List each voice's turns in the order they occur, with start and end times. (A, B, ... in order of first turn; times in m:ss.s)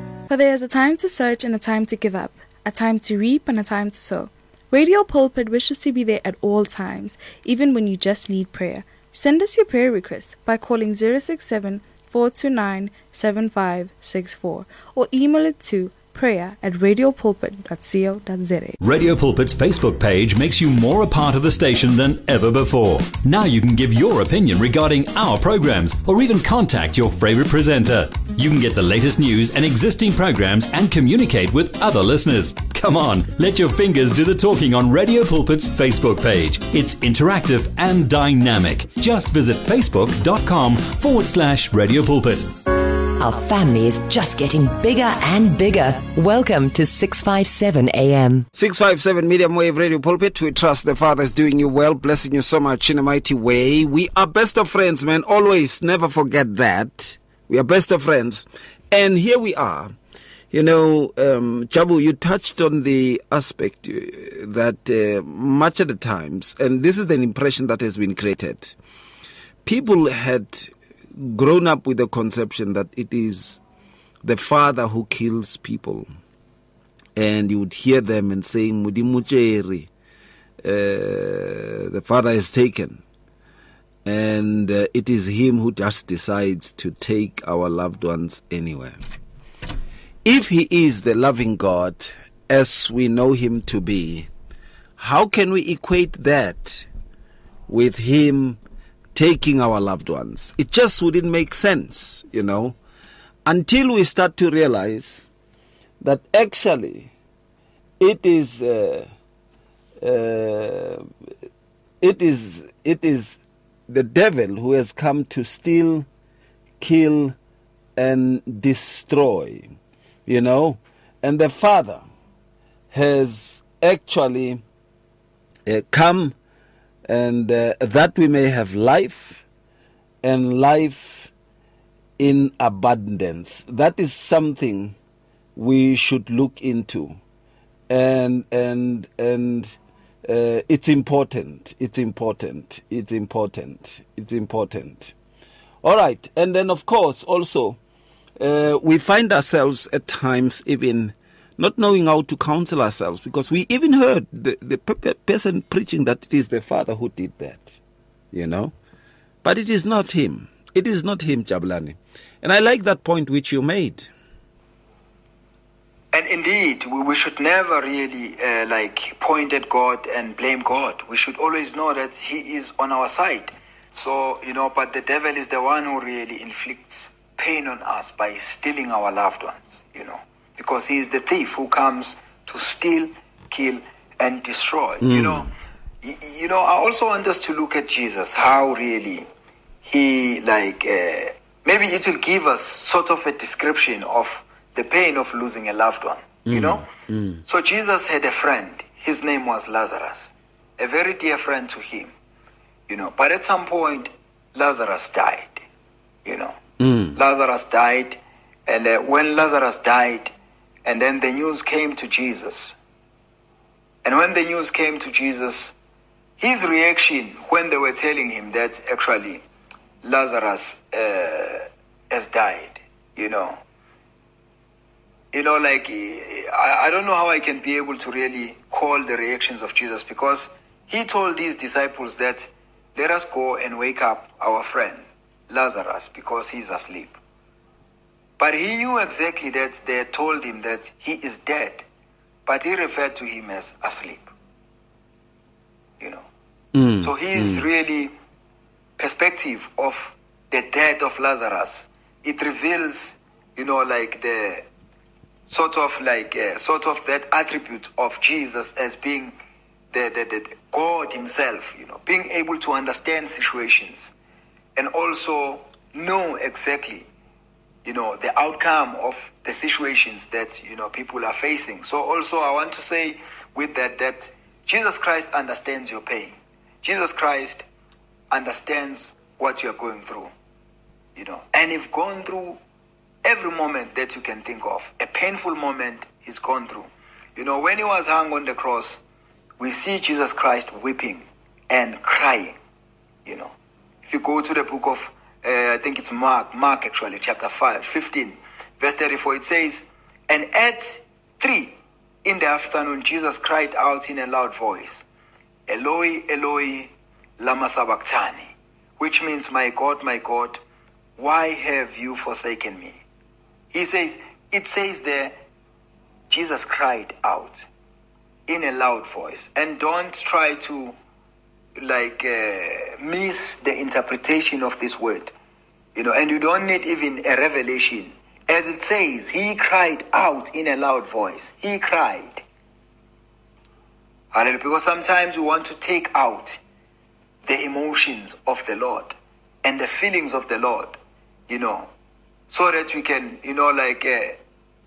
0:00.3-0:18.8 A
0:18.8-0:42.5 B
0:43.0-0:48.4 C
0:48.5-0:59.9 D
1:00.5-1:08.8 D
1:09.6-1:13.6 D
1:14.2-1:16.0 D
1:17.2-1:19.9 D
1:20.6-1:23.0 D
1:24.0-1:29.0 D
1:30.2-1:34.3 D
1:35.0-1:36.8 D
1:37.7-1:38.6 D
1:39.1-1:42.8 D
1:43.4-1:45.3 D
1:46.0-1:47.1 D
1:48.0-1:49.1 D
1:50.0-1:51.1 D
1:52.0-1:56.0 D
1:56.8-1:57.4 D
1:58.0-1:59.7 D
2:00.2-2:02.0 D
2:02.9-2:04.6 D
2:05.6-2:06.4 D
2:07.0-2:09.4 D
2:10.2-2:11.3 D
2:12.2-2:15.0 D
2:15.6-2:17.2 D
2:17.9-2:25.1 D
2:25.8-2:27.8 D
2:28.4-2:37.8 D
2:38.3-2:38.7 D
2:39.4-2:44.1 D
2:46.1-3:05.5 E
3:05.0-3:05.5 D
3:06.0-3:09.2 E
3:09.8-3:16.9 E
3:16.5-3:17.4 D
3:17.4-3:22.1 E
3:22.9-3:25.6 E
3:26.2-3:26.6 E
3:26.8-3:27.2 D
3:27.1-3:30.3 E
3:30.8-3:32.7 E
3:34.0-3:35.7 E
3:36.4-3:39.4 E
3:40.0-3:43.6 E
3:45.3-3:57.2 E
3:58.4-4:01.8 E
4:02.4-4:04.3 E
4:06.0-4:06.2 E
4:06.7-4:07.6 D
4:07.0-4:08.1 E
4:09.0-4:14.6 E
4:15.5-4:19.3 E
4:19.9-4:24.1 E
4:24.8-4:27.0 E
4:27.8-4:37.6 E
4:38.3-4:40.3 E
4:41.2-4:42.6 E
4:43.2-4:49.0 E
4:49.6-4:52.6 E
4:53.2-4:53.5 E
4:54.1-5:05.0 E
5:05.7-5:10.6 E
5:11.2-5:13.0 E
5:13.7-5:15.3 E
5:16.3-5:17.7 E
5:18.5-5:20.9 E
5:21.8-5:25.3 E
5:25.9-5:32.4 E
5:34.3-5:36.6 E
5:37.4-5:41.0 E
5:41.5-5:41.9 E
5:42.5-5:44.4 E